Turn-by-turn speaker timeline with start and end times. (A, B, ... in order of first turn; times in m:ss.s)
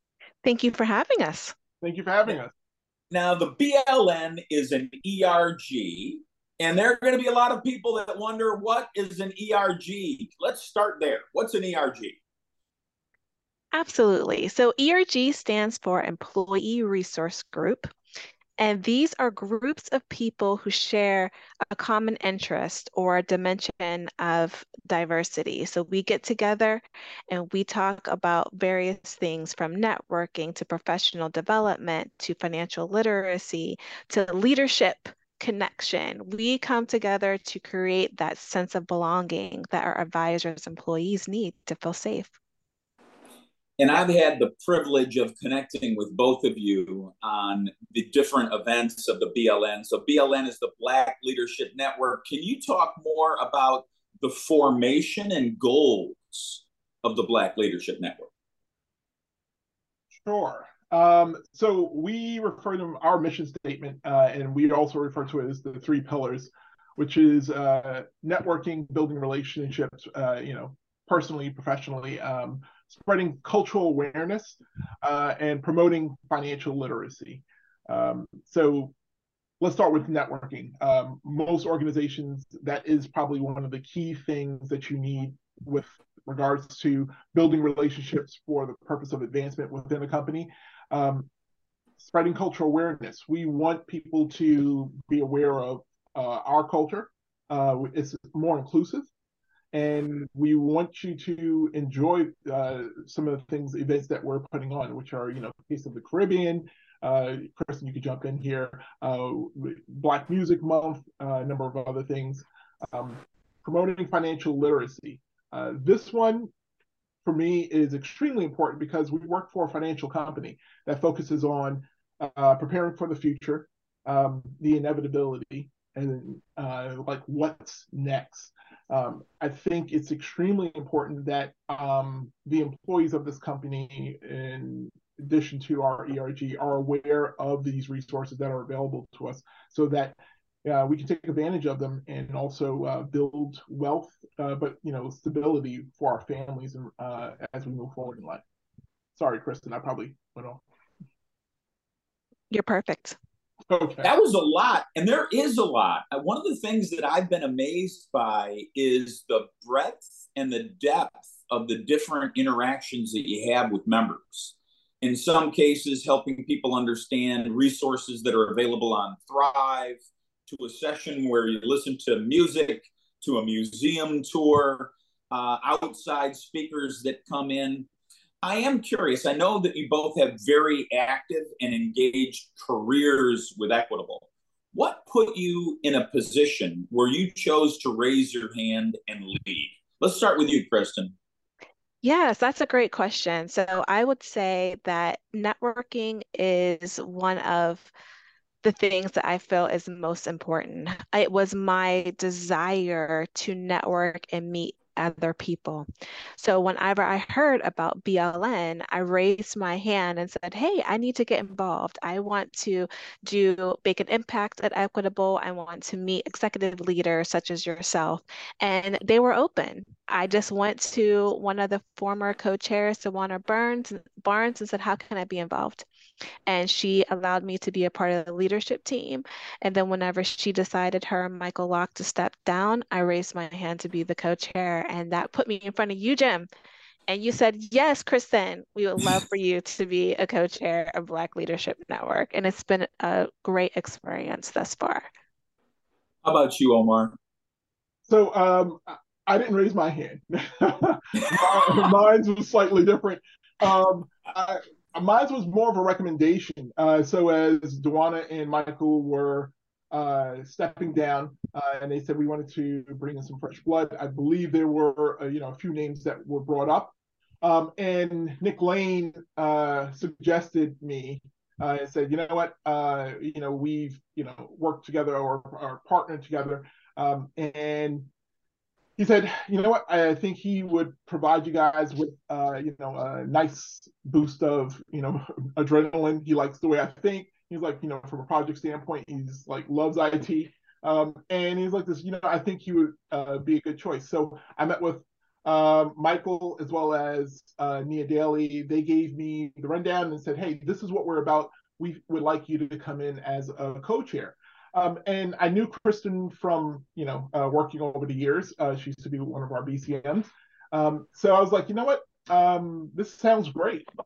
0:00.4-0:01.5 A
0:01.8-0:02.5 B
0:03.1-0:12.2 C
0:13.7-0:17.9 A
0:18.6-0:42.3 A
0:43.8-0:58.3 C
1:00.1-1:18.9 B
1:19.6-1:31.3 B
1:32.0-1:39.1 B
1:39.7-1:56.5 B
1:57.2-2:28.4 B
2:29.2-2:30.6 B
2:32.5-2:33.2 A
2:33.7-2:34.1 B
2:34.0-2:57.9 C
2:58.4-3:11.1 C
3:12.0-3:17.9 A
3:18.6-3:25.8 A
3:26.4-3:45.8 A
3:46.5-3:56.5 A
3:57.1-4:05.0 A
4:06.2-4:07.2 C
4:08.1-4:38.1 B
4:11.3-4:11.8 C
4:39.0-5:13.8 B